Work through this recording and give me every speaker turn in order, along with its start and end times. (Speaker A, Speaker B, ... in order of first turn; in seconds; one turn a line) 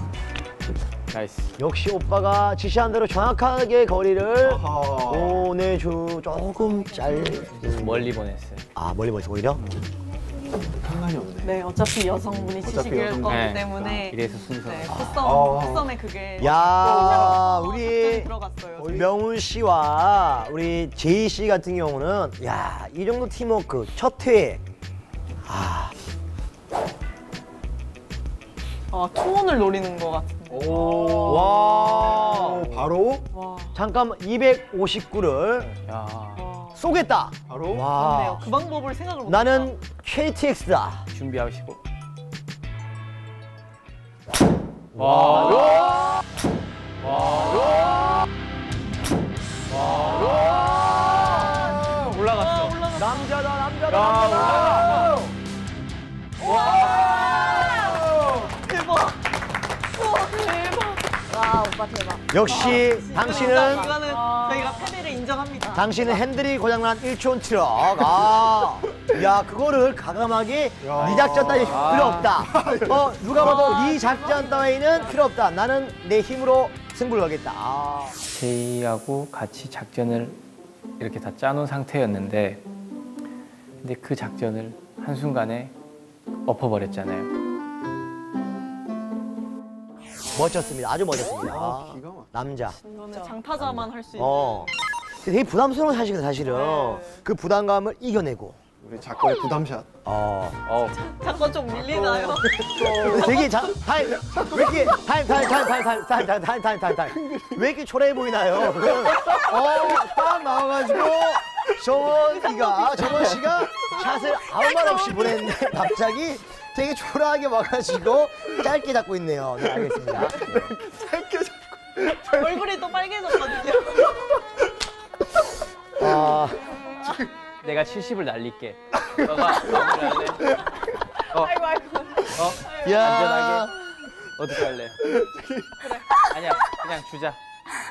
Speaker A: 1.1-1.6
Speaker B: 1.6-8.1
Speaker C: 4.4-5.4
Speaker A: 7.6-8.7
Speaker B: 8.7-9.6
Speaker C: 10.7-11.6
Speaker D: 11.4-11.8
Speaker C: 12.2-14.1
Speaker D: 12.4-13.8
Speaker A: 13.2-15.0
Speaker E: 13.3-19.0
Speaker B: 14.9-15.2
Speaker C: 15.2-17.4
Speaker B: 16.4-18.3
Speaker C: 18.8-19.1
Speaker B: 18.9-24.6
Speaker B: 25.4-25.9
Speaker E: 28.9-31.2
Speaker C: 30.5-31.7
Speaker B: 31.1-32.7
Speaker C: 32.3-33.3
Speaker B: 33.7-35.7
Speaker A: 35.6-36.5
Speaker E: 36.4-36.7
Speaker B: 36.7-38.5
Speaker C: 37.5-37.9
Speaker E: 37.9-39.7
Speaker B: 39.2-41.1
Speaker A: 41.1-41.8
Speaker B: 44.9-46.2
Speaker A: 45.0-46.2
Speaker A: 47.0-48.1
Speaker A: 49.7-52.8
Speaker B: 49.7-52.1
Speaker E: 52.2-53.4
Speaker B: 52.9-55.3
Speaker A: 53.9-55.1
Speaker E: 54.7-55.0
Speaker E: 56.4-59.2
Speaker E: 59.9-61.1
Speaker D: 61.3-62.2
Speaker B: 62.3-63.9
Speaker E: 62.5-66.2
Speaker D: 63.3-64.9
Speaker B: 65.7-78.2
Speaker C: 70.8-73.0
Speaker A: 71.0-72.4
Speaker E: 73.3-74.1
Speaker E: 74.8-75.2
Speaker A: 78.2-80.4
Speaker A: 81.0-82.6
Speaker A: 83.8-85.7
Speaker A: 86.4-87.3
Speaker B: 90.3-92.8
Speaker C: 91.4-92.5
Speaker D: 92.8-93.3
Speaker E: 92.8-94.7
Speaker B: 93.6-98.6
Speaker E: 96.4-97.2
Speaker C: 98.8-99.9
Speaker B: 100.0-100.6
Speaker A: 100.6-101.0
Speaker E: 100.8-103.5
Speaker C: 101.8-105.1
Speaker B: 102.8-120.7
Speaker C: 120.5-122.6
Speaker E: 122.2-124.2
Speaker B: 126.0-126.8
Speaker A: 127.6-130.4
Speaker A: 131.3-131.6
Speaker E: 131.4-133.0
Speaker A: 132.3-135.0
Speaker B: 132.6-133.8
Speaker C: 135.2-135.5
Speaker A: 136.3-137.4